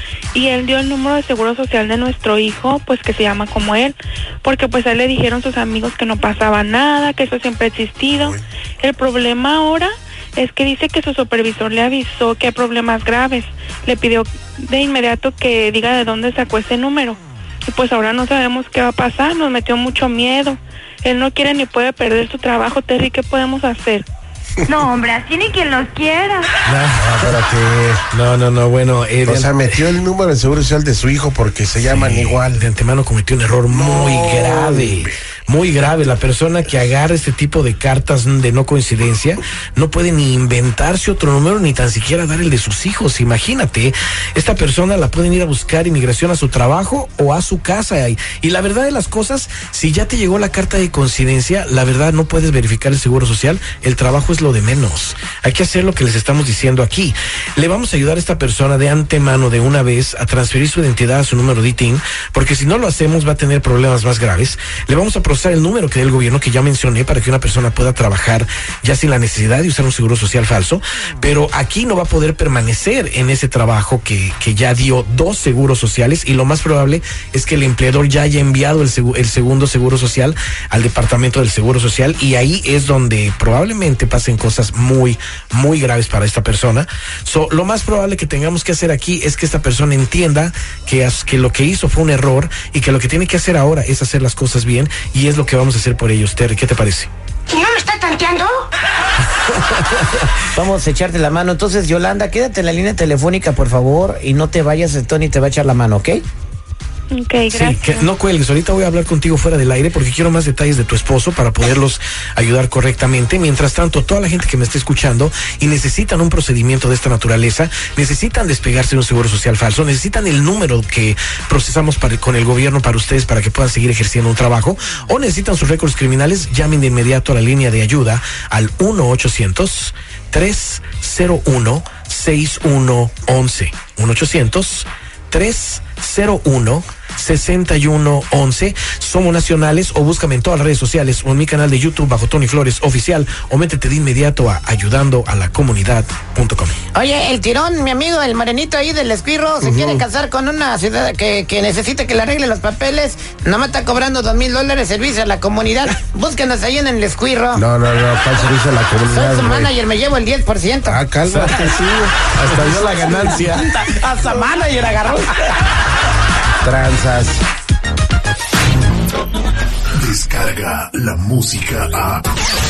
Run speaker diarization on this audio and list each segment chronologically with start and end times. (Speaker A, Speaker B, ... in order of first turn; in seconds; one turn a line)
Speaker A: 0.3-24.0
Speaker B: 8.1-8.4
Speaker C: 24.7-26.5
Speaker D: 26.6-27.4
Speaker B: 27.0-28.0
Speaker D: 28.1-29.8
Speaker B: 29.2-32.6
Speaker D: 31.8-97.1
Speaker B: 33.7-35.1
Speaker C: 97.5-98.5
Speaker E: 100.5-106.2
Speaker A: 107.1-108.0
Speaker D: 107.5-146.8
Speaker E: 146.9-157.6
Speaker B: 149.6-150.0
Speaker B: 157.5-159.7
Speaker E: 159.1-161.0
Speaker B: 160.8-161.7
Speaker D: 161.3-163.7
Speaker E: 162.6-165.6
Speaker B: 166.6-167.4
Speaker F: 170.0-172.3